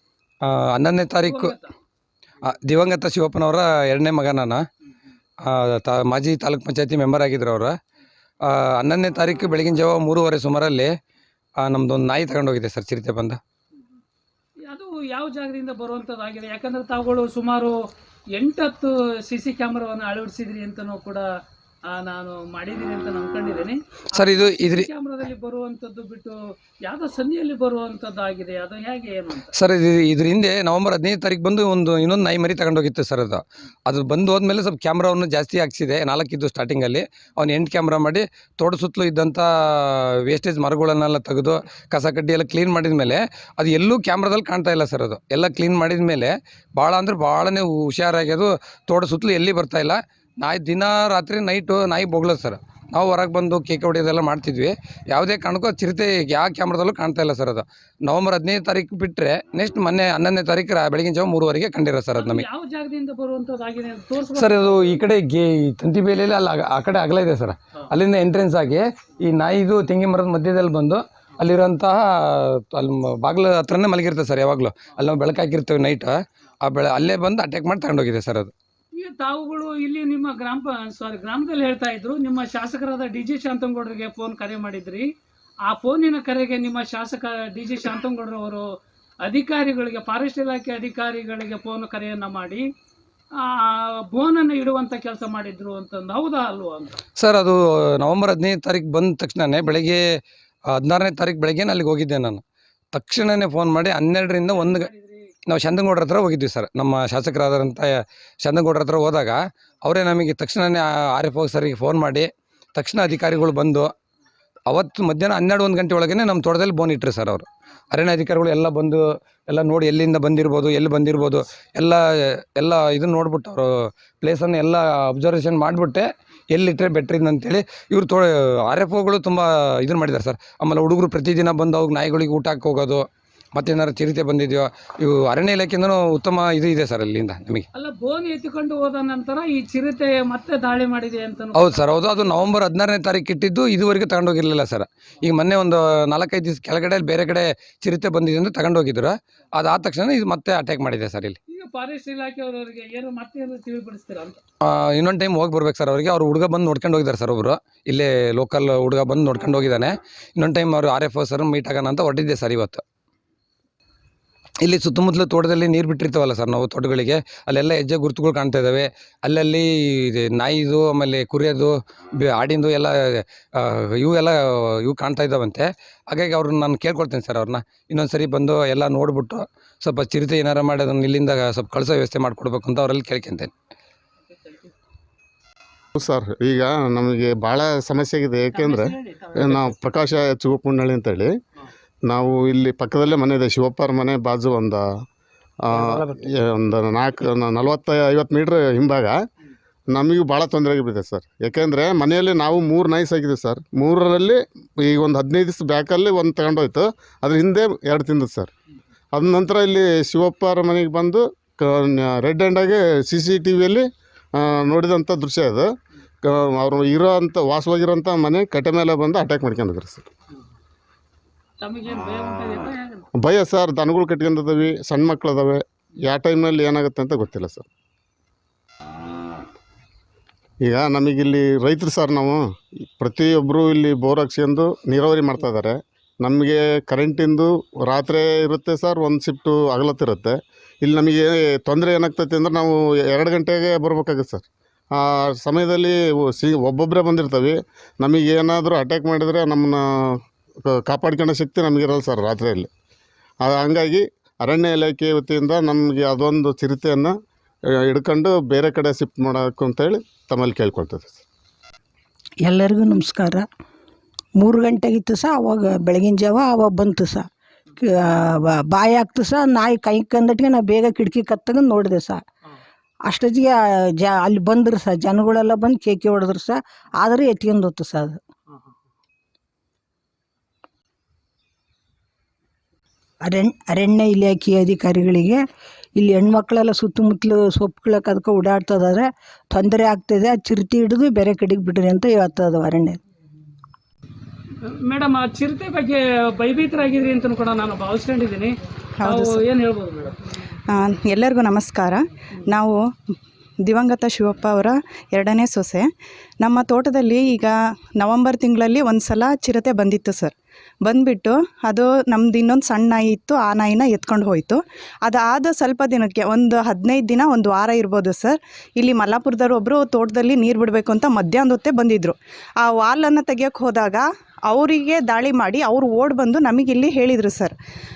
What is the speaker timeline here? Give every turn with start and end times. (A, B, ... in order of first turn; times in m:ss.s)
0:00.4-0:01.5 A
0:01.2-0:01.7 B
0:02.4-0:04.6 A
0:05.4-0:07.7 A
0:08.4-0:10.9 A
0:11.6-0:13.4 A
0:14.6-0:17.7 B
0:18.4-0:21.2 B
0:21.9-0:29.5 B
0:24.1-0:24.9 A
0:29.5-1:02.4 A
1:02.1-1:05.0 B
1:04.3-1:18.5 A
1:19.0-1:25.1 B
1:25.6-1:28.6 B
1:29.2-1:32.6 B
1:33.4-1:37.0 B
1:37.2-1:40.0 A
1:40.7-1:42.4 A
1:42.9-1:44.9 A
1:44.6-1:45.1 B
1:45.5-1:53.9 A
1:54.7-2:03.7 A
2:04.2-2:17.6 A
2:17.7-2:21.9 B
2:21.5-2:31.4 A
2:31.5-2:34.4 B
2:34.6-2:42.8 A
2:44.6-3:03.5 A
3:04.3-3:04.7 B
3:06.0-3:11.3 C
3:08.5-3:09.7 B
3:12.1-3:14.8 C
3:15.7-3:19.2 C
3:19.9-3:28.5 C
3:29.1-3:35.7 C
3:36.2-3:40.0 C
3:41.6-3:43.0 B
3:43.1-3:47.7 C
3:50.6-4:12.7 C
4:13.4-4:17.1 C
4:17.9-4:21.2 C
4:22.4-4:23.4 D
4:24.4-4:32.2 D
4:33.0-4:38.2 D
4:43.2-4:45.4 D
4:46.0-4:53.0 D
4:54.8-5:00.2 B
4:59.0-4:59.4 E
5:00.7-5:02.8 E
5:03.6-5:05.9 E
5:06.4-5:27.5 E